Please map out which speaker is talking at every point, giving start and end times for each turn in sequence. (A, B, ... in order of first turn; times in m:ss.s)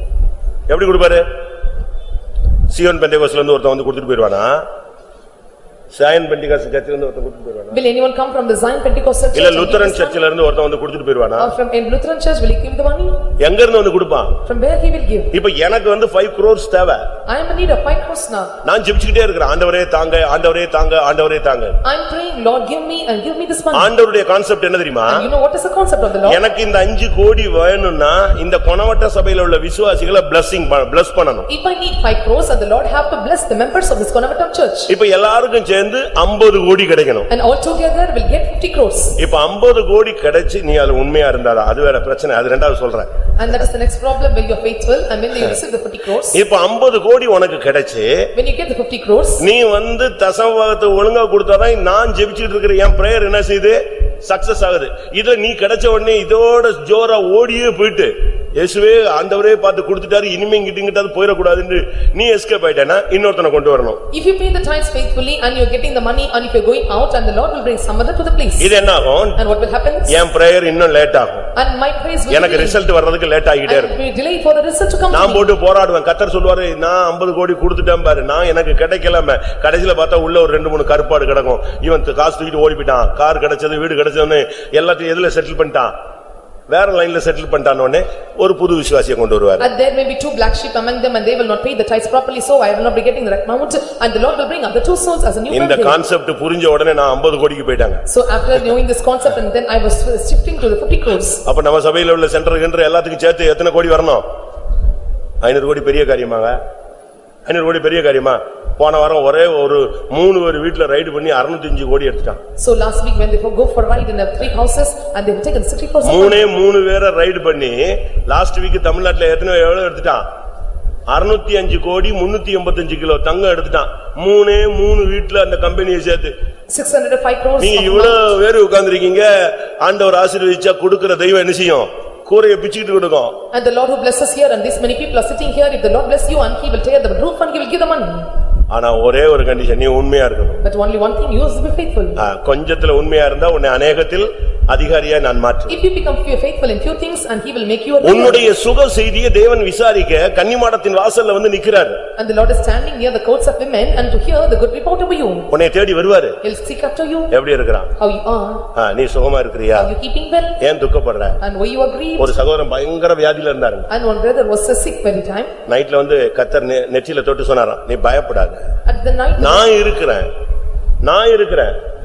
0:00.7-0:01.2 A
0:02.7-0:04.6 A
0:05.9-0:07.8 A
0:07.7-0:10.2 B
0:09.3-0:11.5 A
0:11.4-0:13.2 B
0:13.4-0:14.4 A
0:14.4-0:15.3 B
0:15.3-0:17.0 A
0:17.3-0:18.5 B
0:18.6-0:21.8 A
0:21.8-0:23.9 B
0:23.7-0:25.2 A
0:25.1-0:26.4 B
0:26.2-0:31.5 A
0:31.5-0:34.9 B
0:34.9-0:37.3 A
0:37.3-0:39.2 B
0:39.2-0:43.1 A
0:43.4-0:46.4 B
0:46.3-0:48.3 A
0:48.3-0:49.4 B
0:49.4-1:04.0 A
1:04.1-1:08.7 B
1:08.6-1:09.4 A
1:09.4-1:10.2 B
1:10.1-1:11.5 A
1:11.5-1:12.8 B
1:12.3-1:14.0 A
1:13.7-1:15.5 B
1:15.1-1:25.9 A
1:26.7-1:29.7 A
1:29.6-1:36.0 B
1:35.5-1:38.0 A
1:38.1-1:41.4 B
1:41.4-1:44.2 A
1:45.4-1:46.6 A
1:47.4-1:52.4 A
1:52.6-1:56.5 B
1:56.0-2:00.2 A
2:01.1-2:06.3 A
2:06.7-2:08.2 B
2:07.6-2:13.4 A
2:13.5-2:18.3 B
2:18.7-2:20.6 A
2:20.6-2:22.2 B
2:22.2-2:25.8 A
2:25.7-2:28.5 B
2:28.0-2:32.0 A
2:32.2-2:35.5 B
2:35.5-2:36.4 A
2:36.4-2:37.4 B
2:37.3-2:37.9 A
2:38.0-2:38.7 B
2:38.7-2:39.9 A
2:39.7-2:40.6 B
2:40.6-2:41.4 A
2:41.4-2:42.4 B
2:42.2-2:43.9 A
2:43.9-2:45.5 B
2:45.6-2:48.6 A
2:48.8-2:49.7 B
2:49.4-2:50.3 A
2:51.0-2:51.7 A